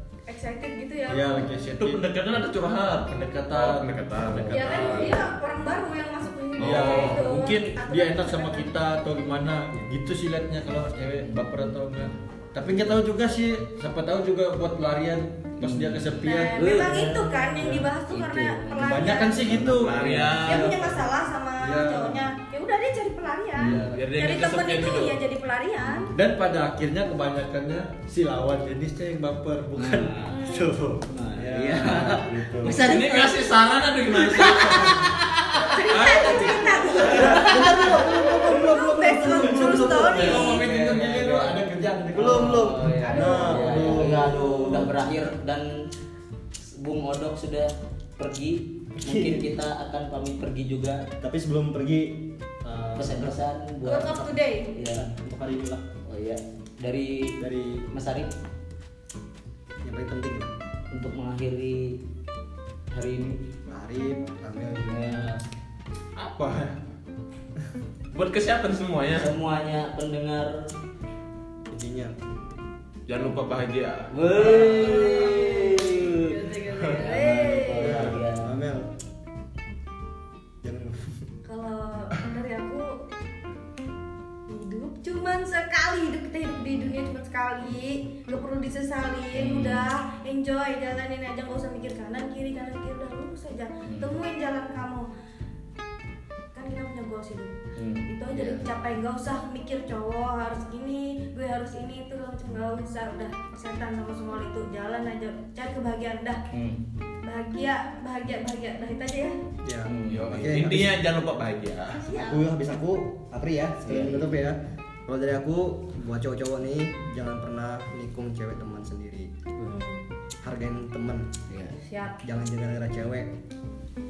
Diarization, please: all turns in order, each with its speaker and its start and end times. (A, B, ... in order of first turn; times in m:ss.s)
0:00.3-0:01.5 A
0:01.1-0:02.0 B
0:01.8-0:05.2 C
0:03.1-0:05.2 B
0:04.5-0:08.8 A
0:06.6-0:07.1 C
0:06.6-0:17.9 B
0:06.7-0:07.3 D
0:11.3-0:12.2 D
0:15.6-0:17.3 D
0:16.2-0:19.6 A
0:18.1-0:21.0 D
0:18.8-0:20.9 B
0:19.6-0:20.8 C
0:20.4-0:26.1 A
0:21.6-0:22.3 B
0:23.6-0:24.0 B
0:23.6-0:25.2 C
0:25.8-0:26.1 D
0:26.1-0:32.8 B
0:29.8-0:30.4 D
0:30.3-0:30.7 A
0:31.1-0:33.5 D
0:32.8-0:35.1 C
0:34.0-0:38.0 D
0:35.7-0:40.6 A
0:35.9-0:37.5 C
0:37.1-0:44.8 B
0:37.5-0:40.0 E
0:39.6-0:41.6 D
0:40.1-0:40.9 C
0:42.1-0:45.7 D
0:42.2-0:44.8 E
0:43.0-0:44.1 A
0:46.8-0:51.0 D
0:49.0-0:49.4 E
0:51.2-0:53.4 E
0:53.0-0:55.1 D
0:53.8-0:54.8 A
0:54.8-0:55.9 E
0:56.1-0:57.4 D
0:57.4-0:57.9 E
0:57.9-0:58.3 D
0:59.8-1:00.5 E
1:00.9-1:02.0 D
1:02.9-1:03.4 D
1:03.7-1:05.4 E
1:04.9-1:05.4 D
1:06.2-1:06.8 C
1:08.1-1:09.3 C
1:09.1-1:10.7 D
1:11.7-1:12.2 E
1:13.1-1:14.1 C
1:14.1-1:18.5 D
1:14.4-1:18.1 A
1:17.7-1:18.9 E
1:20.6-1:21.2 E
1:21.4-1:23.0 A
1:24.5-1:35.1 A
1:29.3-1:29.9 D
1:36.5-1:37.6 A
1:37.8-1:38.7 D
1:38.1-1:46.4 A
1:46.5-1:46.8 D
1:47.2-1:49.4 A
1:49.6-1:50.9 E
1:49.9-1:50.3 D
1:50.1-1:52.1 C
1:52.0-1:52.4 A
1:52.1-1:59.3 E
1:53.8-1:54.3 D
1:59.6-2:00.1 A
2:00.4-2:01.3 E
2:01.5-2:01.8 D
2:01.8-2:02.2 A
2:02.2-2:03.4 E